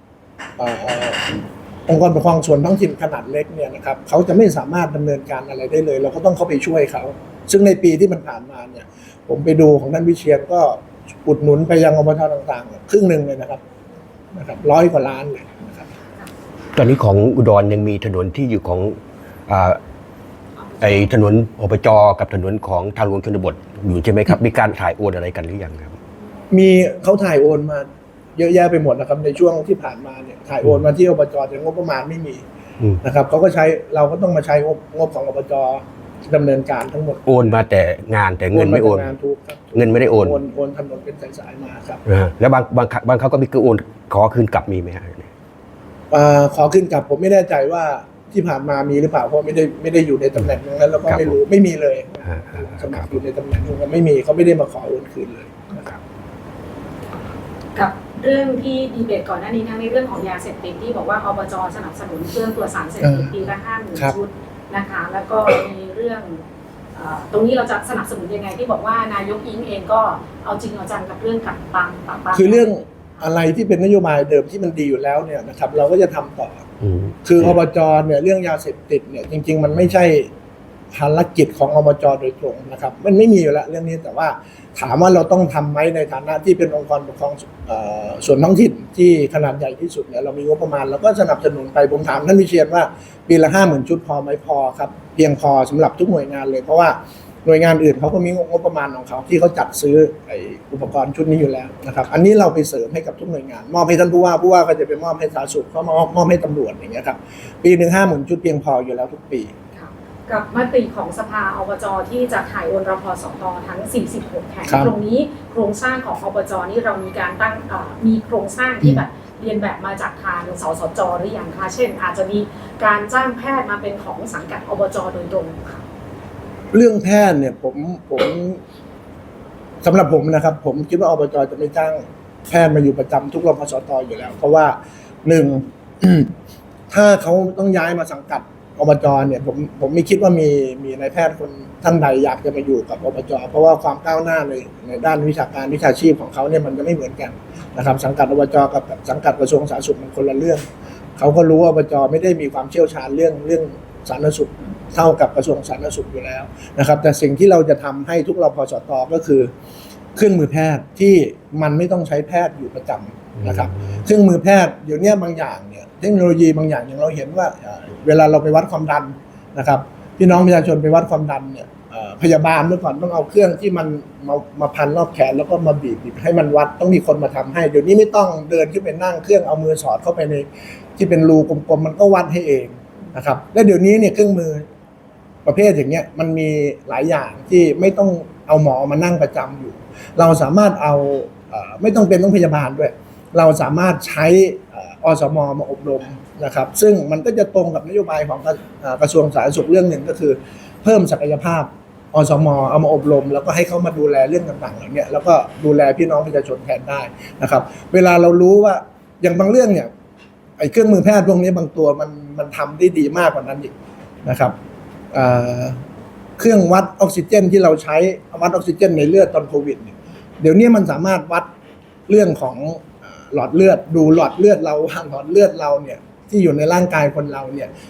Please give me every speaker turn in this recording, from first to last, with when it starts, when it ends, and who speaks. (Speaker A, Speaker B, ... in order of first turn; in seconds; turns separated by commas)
Speaker A: 0.6-13.6, Speaker A: 14.3-15.9, Speaker B: 16.8-19.8, Speaker C: 20.6-21.1, Speaker B: 20.8-25.9, Speaker A: 26.5-32.4, Speaker A: 33.0-37.5, Speaker B: 37.2-39.1, Speaker A: 38.5-42.0, Speaker B: 39.7-40.4, Speaker B: 42.0-45.3, Speaker A: 46.1-55.9, Speaker B: 51.1-51.4, Speaker B: 52.3-53.1, Speaker C: 57.7-66.4, Speaker A: 63.0-63.3, Speaker C: 66.9-72.7, Speaker A: 72.3-76.6, Speaker B: 76.8-77.2, Speaker A: 77.2-80.3, Speaker A: 80.9-109.5, Speaker C: 109.7-125.8, Speaker A: 114.7-114.9, Speaker A: 126.7-128.6, Speaker A: 129.8-136.3, Speaker A: 136.9-150.6, Speaker A: 151.2-159.5, Speaker A: 160.2-184.7, Speaker A: 185.4-209.9, Speaker A: 210.6-213.7, Speaker A: 214.2-214.5, Speaker A: 215.1-215.8, Speaker A: 216.4-221.5, Speaker A: 222.1-227.7